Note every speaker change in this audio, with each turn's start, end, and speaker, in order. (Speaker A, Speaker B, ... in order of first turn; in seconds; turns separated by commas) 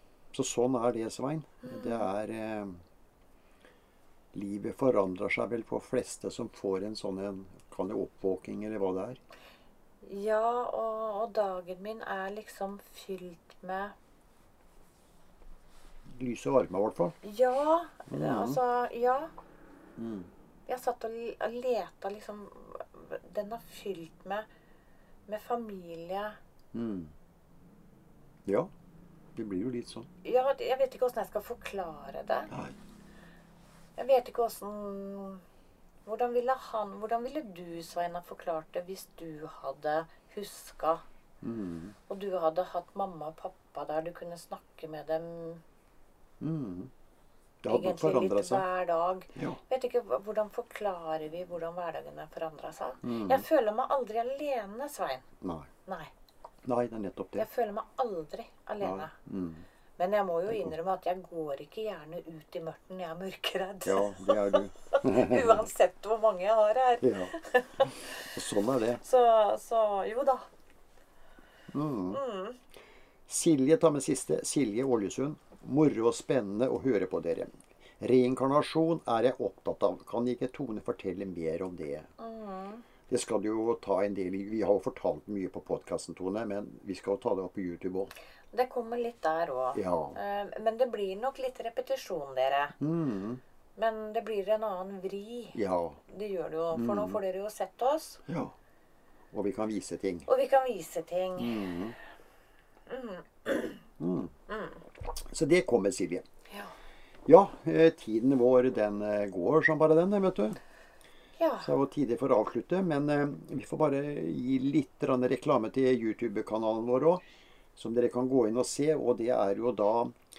Speaker A: 0.3-2.8, Speaker B: 1.6-2.1, Speaker A: 4.3-9.2, Speaker B: 10.0-13.9, Speaker A: 16.1-17.2, Speaker B: 17.2-19.3, Speaker A: 18.1-18.6, Speaker A: 20.0-20.3, Speaker B: 20.7-24.5, Speaker B: 25.3-26.4, Speaker A: 26.7-27.1, Speaker A: 29.4-30.1, Speaker B: 30.2-32.5, Speaker A: 32.5-32.8, Speaker B: 34.0-35.4, Speaker B: 36.0-41.0, Speaker A: 41.4-42.0, Speaker B: 42.1-45.6, Speaker A: 46.4-46.9, Speaker A: 47.6-48.7, Speaker B: 47.7-55.3, Speaker A: 49.3-49.6, Speaker A: 53.0-53.5, Speaker A: 55.4-55.7, Speaker B: 55.9-56.1, Speaker A: 56.6-57.5, Speaker B: 57.4-59.1, Speaker A: 58.8-59.7, Speaker B: 60.0-68.4, Speaker A: 63.9-65.7, Speaker A: 67.0-69.0, Speaker B: 69.0-70.5, Speaker A: 71.7-72.2, Speaker B: 72.1-72.6, Speaker A: 73.3-82.1, Speaker B: 82.2-82.8, Speaker A: 83.1-88.1, Speaker B: 88.5-92.8, Speaker A: 89.8-90.2, Speaker A: 92.8-93.4, Speaker B: 93.8-98.2, Speaker A: 95.5-96.0, Speaker A: 96.7-97.2, Speaker A: 98.3-98.5, Speaker A: 99.3-100.3, Speaker B: 100.3-101.8, Speaker A: 101.4-102.0, Speaker B: 102.9-103.8, Speaker A: 104.0-104.3, Speaker B: 104.5-104.8, Speaker A: 105.3-106.2, Speaker B: 106.5-106.7, Speaker A: 107.3-110.6, Speaker B: 111.4-111.7, Speaker A: 111.6-117.2, Speaker A: 117.8-120.2